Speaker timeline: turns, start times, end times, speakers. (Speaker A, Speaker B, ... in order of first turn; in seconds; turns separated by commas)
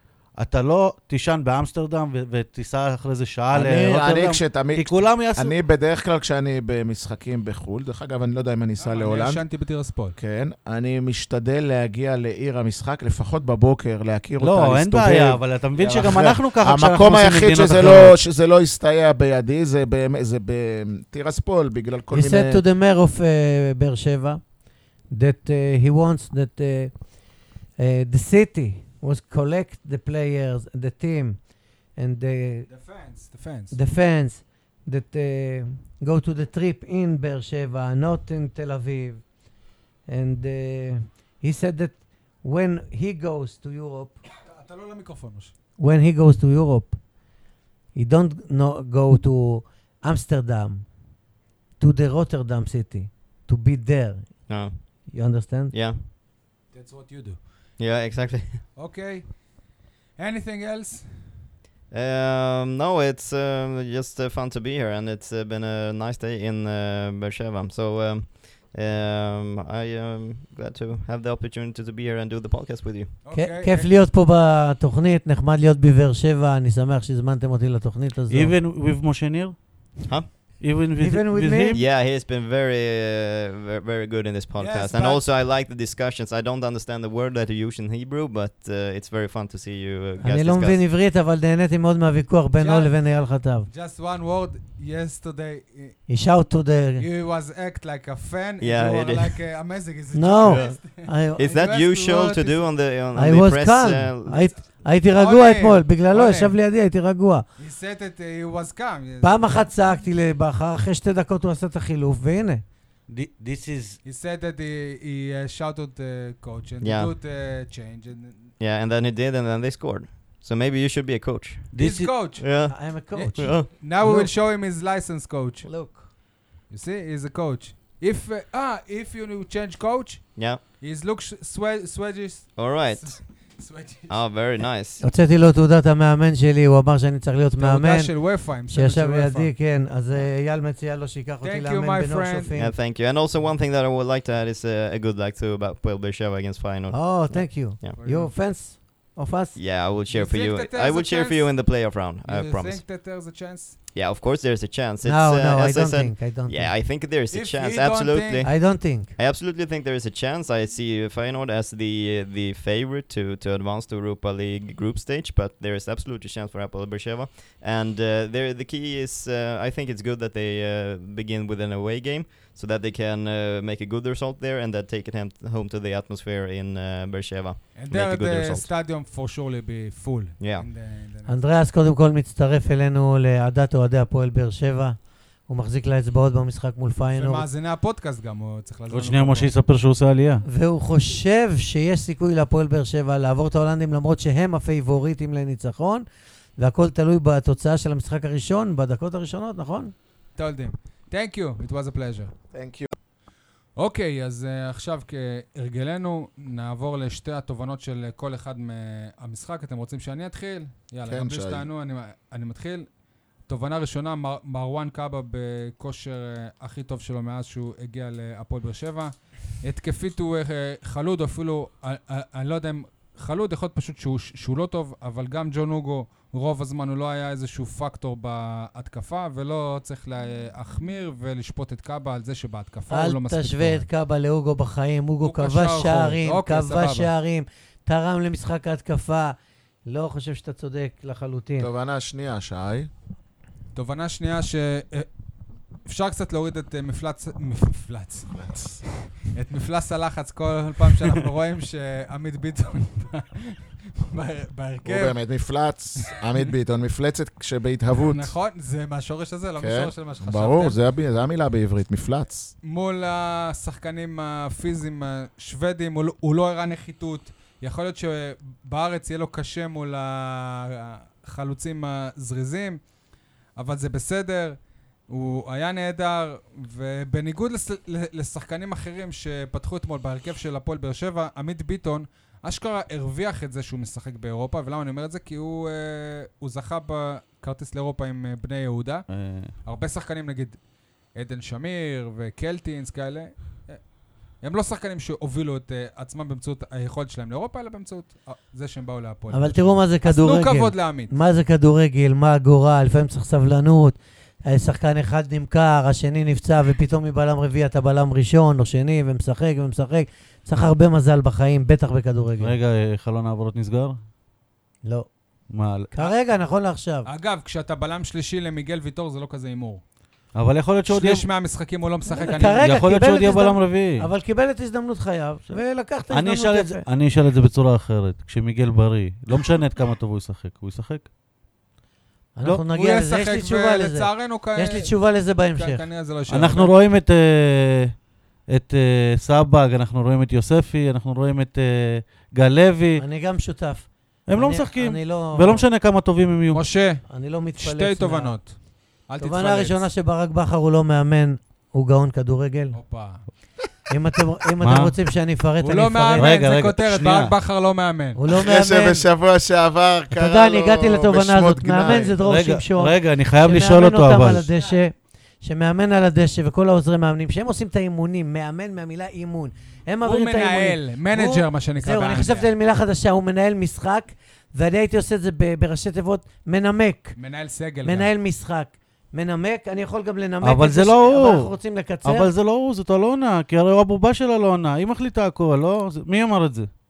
Speaker A: 0.3-5.6, Speaker B: 3.5-9.4, Speaker C: 8.8-10.2, Speaker B: 10.2-22.6, Speaker A: 14.4-18.2, Speaker D: 22.1-24.4, Speaker D: 25.1-27.0, Speaker D: 27.8-31.4, Speaker D: 31.9-32.7, Speaker C: 32.7-33.8, Speaker D: 33.7-39.2, Speaker D: 40.1-44.1, Speaker C: 44.4-45.5, Speaker D: 45.8-47.0, Speaker D: 47.9-50.9, Speaker D: 51.8-55.7, Speaker E: 54.5-55.1, Speaker E: 55.7-56.0, Speaker C: 56.7-57.5, Speaker E: 57.8-58.6, Speaker C: 58.8-61.4, Speaker E: 61.9-73.2, Speaker C: 73.2-73.9, Speaker D: 73.3-78.6, Speaker A: 78.3-81.8, Speaker E: 80.0-80.6, Speaker D: 81.0-81.8, Speaker E: 81.7-90.8, Speaker C: 84.6-85.2, Speaker D: 90.2-93.7, Speaker C: 92.6-93.1, Speaker C: 93.7-96.0, Speaker D: 96.1-97.1, Speaker C: 97.0-102.7, Speaker E: 98.6-99.4, Speaker D: 100.1-101.6, Speaker E: 100.4-100.8, Speaker E: 101.4-104.5, Speaker D: 103.2-107.4, Speaker C: 105.1-106.5, Speaker C: 107.6-109.7, Speaker D: 109.2-112.6, Speaker A: 113.1-114.0, Speaker C: 114.0-118.5, Speaker E: 116.8-117.2, Speaker E: 118.6-123.7, Speaker A: 121.7-122.1, Speaker C: 121.8-126.0, Speaker D: 122.7-124.3, Speaker D: 125.6-126.1, Speaker C: 126.7-134.2, Speaker E: 130.4-130.6, Speaker E: 132.6-133.4, Speaker E: 134.1-135.0, Speaker D: 135.0-142.8, Speaker C: 137.6-139.5, Speaker C: 141.4-142.5, Speaker E: 142.6-148.0, Speaker D: 146.9-149.6, Speaker C: 148.0-148.3, Speaker E: 149.6-152.8, Speaker C: 150.1-153.8, Speaker E: 153.9-178.7, Speaker D: 155.0-156.7, Speaker C: 157.3-158.5, Speaker D: 158.4-159.1, Speaker C: 177.8-181.4, Speaker E: 180.4-180.7, Speaker D: 181.3-187.5, Speaker C: 187.1-189.5, Speaker A: 188.9-190.4, Speaker D: 190.4-196.1, Speaker D: 196.6-199.9, Speaker C: 200.4-202.3, Speaker B: 202.5-202.9, Speaker C: 203.8-212.9, Speaker B: 211.1-211.7, Speaker C: 213.5-233.8, Speaker D: 232.9-241.7, Speaker C: 235.2-237.1, Speaker B: 241.6-242.9, Speaker C: 243.8-245.1, Speaker C: 245.9-248.5, Speaker B: 248.4-248.8, Speaker C: 249.2-255.2, Speaker B: 254.9-258.3, Speaker C: 256.0-256.5, Speaker C: 258.0-260.8, Speaker B: 259.6-262.5, Speaker C: 262.6-272.8, Speaker C: 273.6-274.6, Speaker C: 275.1-293.9, Speaker A: 289.1-289.5, Speaker C: 294.4-301.1, Speaker D: 299.3-312.6, Speaker A: 312.4-314.0, Speaker D: 314.8-315.1, Speaker A: 315.5-315.9, Speaker D: 315.9-317.1, Speaker C: 317.1-319.8, Speaker A: 320.4-321.2, Speaker C: 320.9-322.7, Speaker D: 322.1-326.8, Speaker A: 322.5-324.1, Speaker A: 326.1-331.1, Speaker D: 332.4-335.8, Speaker C: 332.7-334.9, Speaker C: 335.6-336.7, Speaker A: 336.3-338.0, Speaker A: 338.5-343.0, Speaker D: 343.0-345.6, Speaker A: 344.3-346.6, Speaker C: 346.5-347.0, Speaker D: 347.1-348.4, Speaker C: 347.6-349.8, Speaker D: 349.2-352.8, Speaker C: 352.7-353.2, Speaker D: 353.9-356.4, Speaker A: 354.6-354.9, Speaker C: 355.6-358.2, Speaker A: 356.2-357.4, Speaker D: 358.2-359.1, Speaker B: 358.3-362.2, Speaker D: 360.1-377.1, Speaker A: 362.2-364.5, Speaker C: 370.0-372.5, Speaker C: 377.2-378.1, Speaker D: 377.8-382.3, Speaker A: 380.4-381.5, Speaker A: 382.0-386.7